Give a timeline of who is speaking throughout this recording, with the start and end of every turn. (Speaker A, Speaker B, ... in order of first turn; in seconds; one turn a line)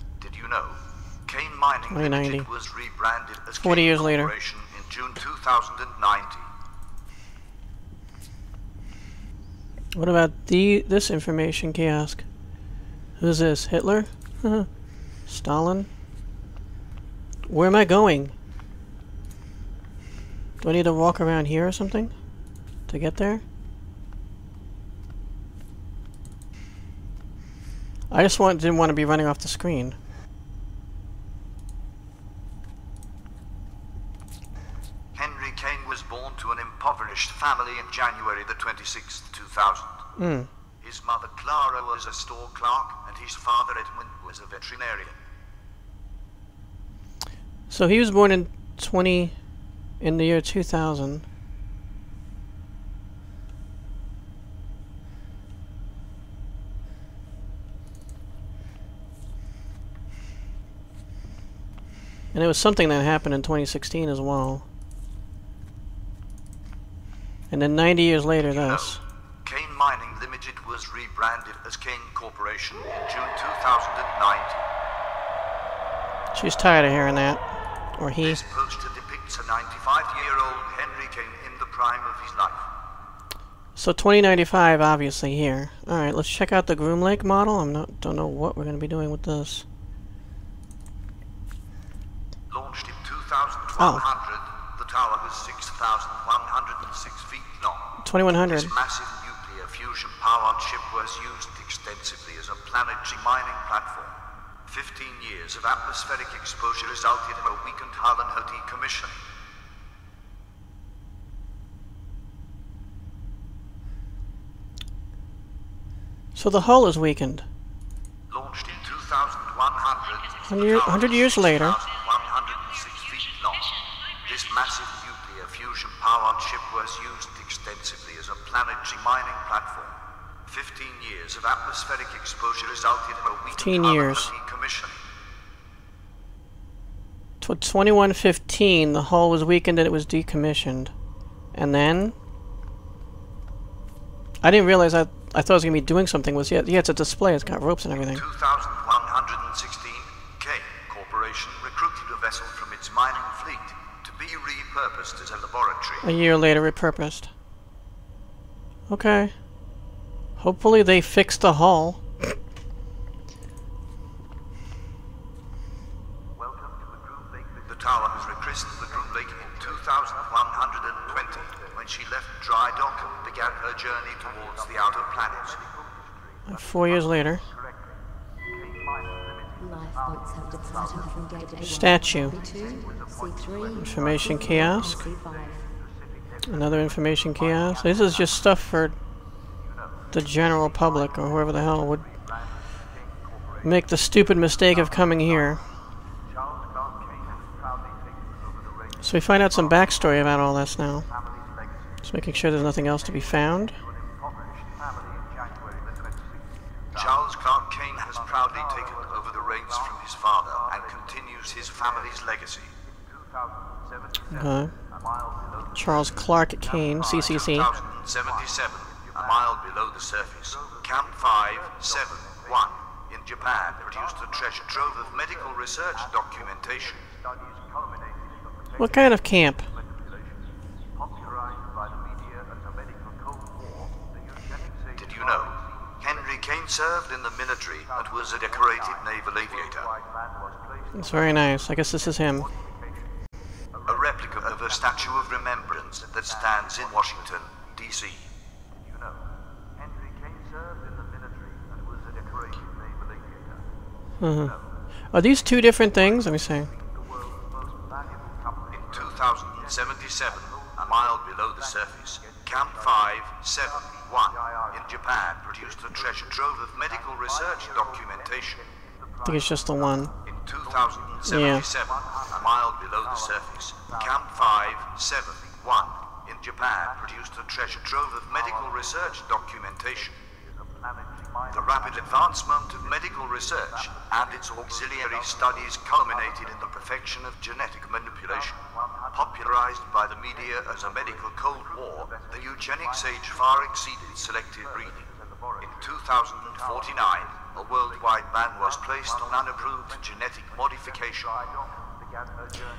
Speaker A: 0.2-6.5
Speaker B: 1.9-2.5
Speaker B: 3.6-4.3
Speaker B: 9.9-12.2
Speaker B: 13.2-14.7
Speaker B: 15.2-15.9
Speaker B: 17.5-18.3
Speaker B: 20.6-22.1
Speaker B: 22.9-23.4
Speaker B: 28.1-30.0
Speaker A: 35.1-40.0
Speaker B: 40.2-40.5
Speaker A: 40.8-45.2
Speaker B: 47.7-49.4
Speaker B: 50.0-51.2
Speaker B: 62.3-64.7
Speaker B: 67.5-69.0
Speaker A: 68.5-74.7
Speaker B: 76.3-77.4
Speaker B: 78.0-78.4
Speaker A: 78.2-82.7
Speaker B: 83.8-89.7
Speaker A: 92.5-98.0
Speaker B: 93.8-94.0
Speaker B: 98.0-98.7
Speaker A: 98.5-109.2
Speaker B: 116.3-117.5
Speaker A: 118.3-129.9
Speaker B: 120.5-121.8
Speaker A: 130.5-135.0
Speaker B: 133.6-134.3
Speaker B: 137.4-140.9
Speaker B: 141.5-142.1
Speaker B: 144.4-148.2
Speaker A: 148.1-156.1
Speaker B: 156.0-157.3
Speaker B: 158.9-159.3
Speaker B: 160.4-162.1
Speaker A: 167.7-175.7
Speaker B: 176.5-177.4
Speaker C: 179.6-185.7
Speaker B: 181.6-182.3
Speaker B: 183.8-185.0
Speaker B: 186.5-189.0
Speaker B: 190.1-192.1
Speaker B: 193.6-195.6
Speaker B: 199.0-201.1
Speaker B: 202.0-203.8
Speaker A: 206.9-212.7
Speaker B: 214.3-214.7
Speaker B: 215.8-217.7
Speaker A: 217.3-227.1
Speaker B: 228.8-229.7
Speaker A: 234.9-239.9
Speaker B: 240.9-242.5
Speaker A: 243.9-248.3
Speaker A: 252.3-253.4
Speaker B: 254.2-254.5
Speaker B: 255.1-256.7
Speaker A: 258.7-268.7
Speaker B: 269.2-270.1
Speaker A: 270.3-280.2
Speaker B: 271.3-271.6
Speaker A: 281.5-288.6
Speaker A: 289.1-301.4